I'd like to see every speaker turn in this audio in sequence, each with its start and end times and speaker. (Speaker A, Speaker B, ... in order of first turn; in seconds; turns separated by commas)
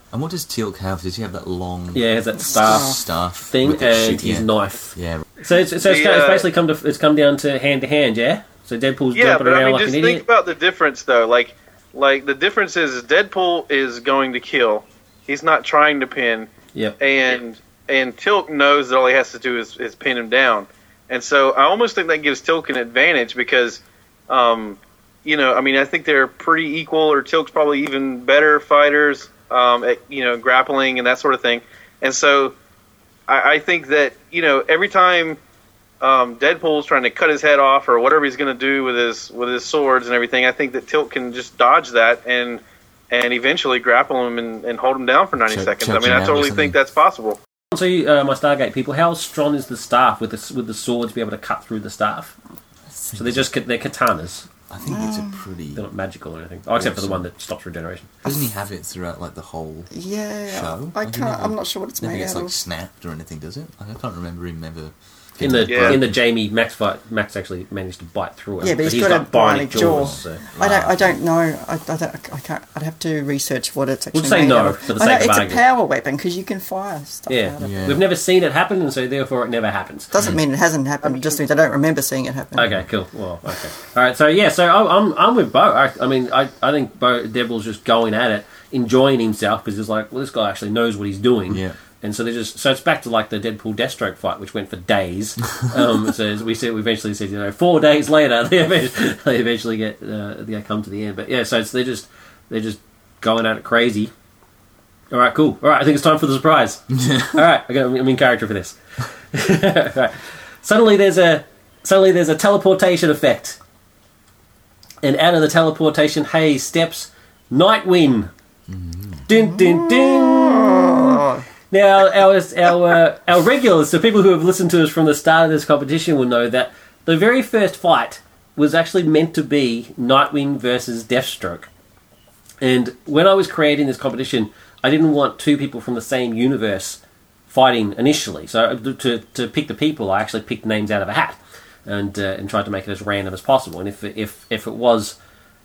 Speaker A: 0.1-5.3, Speaker B: 1.9-3.0, Speaker C: 2.5-3.0, Speaker B: 3.5-10.2, Speaker D: 5.8-6.5, Speaker D: 9.1-32.5, Speaker D: 33.3-35.4, Speaker D: 36.0-47.4, Speaker A: 45.4-46.8, Speaker B: 47.7-52.3, Speaker A: 53.1-53.5, Speaker B: 53.1-54.5, Speaker A: 54.7-55.9, Speaker C: 54.9-55.4, Speaker B: 55.8-58.1, Speaker A: 56.8-57.3, Speaker A: 58.2-60.0, Speaker C: 59.9-62.5, Speaker A: 60.5-66.2, Speaker B: 65.4-70.4, Speaker D: 65.7-66.0, Speaker C: 68.6-77.9, Speaker A: 69.7-71.2, Speaker B: 74.1-75.6, Speaker B: 77.3-80.1, Speaker A: 77.6-78.1, Speaker C: 80.1-82.8, Speaker B: 82.6-104.1, Speaker A: 91.5-91.8, Speaker B: 105.1-108.8, Speaker A: 107.0-107.3, Speaker B: 109.3-113.6, Speaker B: 115.0-118.3, Speaker A: 118.7-119.3, Speaker B: 119.3-131.7, Speaker C: 119.3-121.5, Speaker B: 132.6-145.2